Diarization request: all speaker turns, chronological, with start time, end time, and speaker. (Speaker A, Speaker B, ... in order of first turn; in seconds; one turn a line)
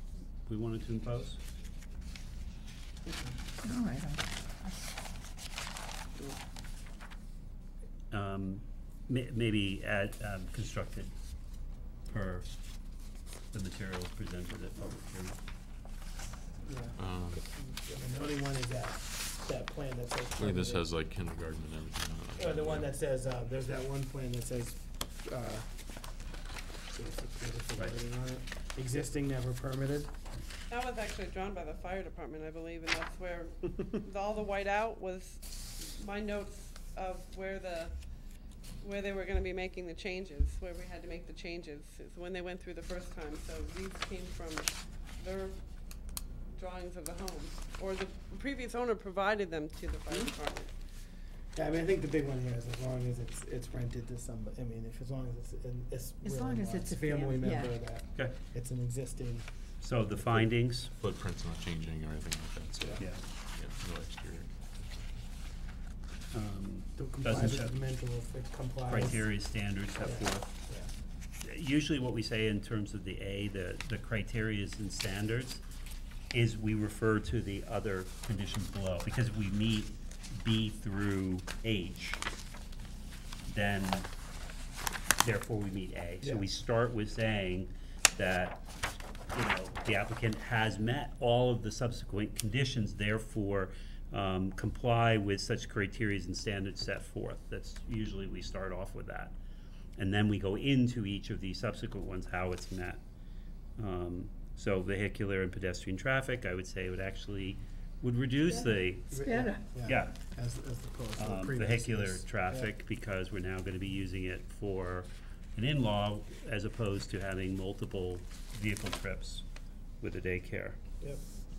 Speaker A: 0.5-1.4
Speaker B: 3.1-3.3
Speaker C: 3.6-4.8
Speaker A: 8.1-11.1
Speaker A: 12.1-12.6
Speaker A: 13.5-15.4
Speaker B: 16.6-20.8
Speaker D: 17.0-17.5
Speaker D: 20.4-22.9
Speaker B: 22.4-25.7
Speaker B: 26.9-30.1
Speaker E: 30.7-37.9
Speaker E: 38.8-45.6
Speaker E: 46.5-50.7
Speaker B: 51.5-59.5
Speaker C: 56.2-57.8
Speaker A: 59.8-60.9
Speaker B: 60.1-60.4
Speaker D: 61.0-65.2
Speaker B: 62.8-63.0
Speaker A: 66.3-67.8
Speaker B: 67.0-69.2
Speaker A: 68.9-70.6
Speaker B: 70.0-70.9
Speaker A: 71.4-75.6
Speaker A: 76.3-82.2
Speaker A: 83.5-84.1
Speaker A: 85.2-88.6
Speaker B: 86.2-86.5
Speaker A: 89.3-99.3
Speaker A: 100.0-103.0
Speaker A: 103.8-109.2
Speaker C: 108.5-109.7
Speaker B: 109.1-112.7
Speaker A: 109.8-110.2
Speaker A: 111.2-119.5
Speaker A: 120.0-120.8